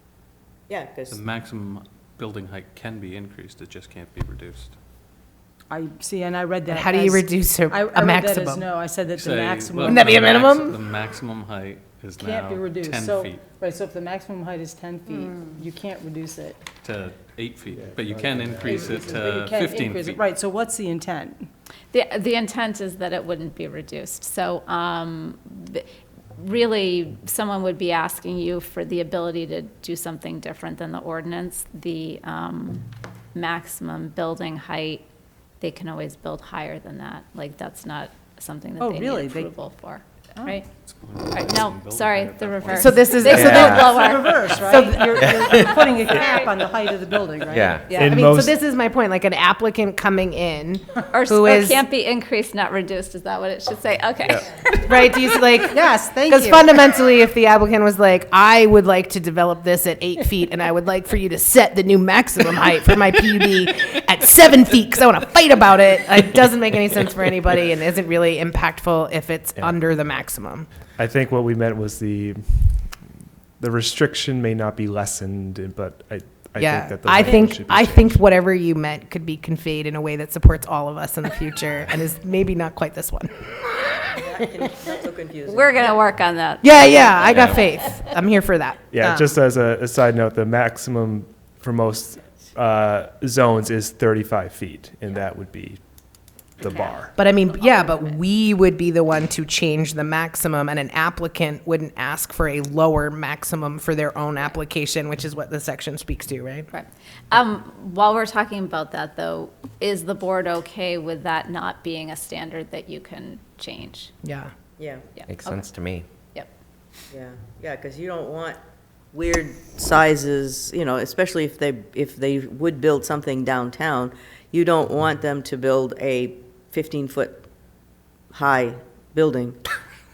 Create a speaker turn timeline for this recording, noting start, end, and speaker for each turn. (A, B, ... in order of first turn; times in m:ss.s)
0:00.7-0:01.2 A
0:01.1-0:04.8 B
0:05.7-0:10.3 C
0:06.7-0:08.6 D
0:09.1-0:13.5 B
0:09.8-0:10.8 D
0:12.2-0:16.6 C
0:16.8-0:20.2 B
0:17.8-0:18.7 E
0:18.8-0:21.5 C
0:21.9-0:25.8 F
0:26.4-0:35.0 F
0:35.6-0:40.6 F
0:38.8-0:39.5 C
0:40.4-0:40.6 C
0:40.8-0:43.4 B
0:41.3-0:46.5 F
0:42.6-0:43.8 D
0:43.2-0:43.9 G
0:43.4-0:47.8 C
0:44.6-0:45.6 D
0:47.5-0:47.9 G
0:47.9-0:48.2 F
0:47.9-0:48.5 E
0:48.0-0:51.8 D
0:51.1-0:55.4 F
0:54.8-1:10.7 D
0:55.7-0:56.6 C
1:11.0-1:12.9 E
1:13.6-1:18.2 E
1:16.6-1:23.9 D
1:24.2-1:25.9 A
1:25.5-1:27.6 F
1:26.6-1:29.3 D
1:27.3-1:27.6 G
1:28.9-1:35.8 E
1:36.6-1:37.1 E
1:36.6-1:37.0 F
1:37.2-1:46.7 D
1:37.5-1:38.1 F
1:46.7-1:54.1 F
1:54.2-1:54.5 D
1:54.8-1:55.0 A
1:55.2-1:55.7 F
1:55.3-1:56.0 G
1:57.1-1:58.6 A
1:59.1-2:07.4 A
2:08.3-2:09.6 A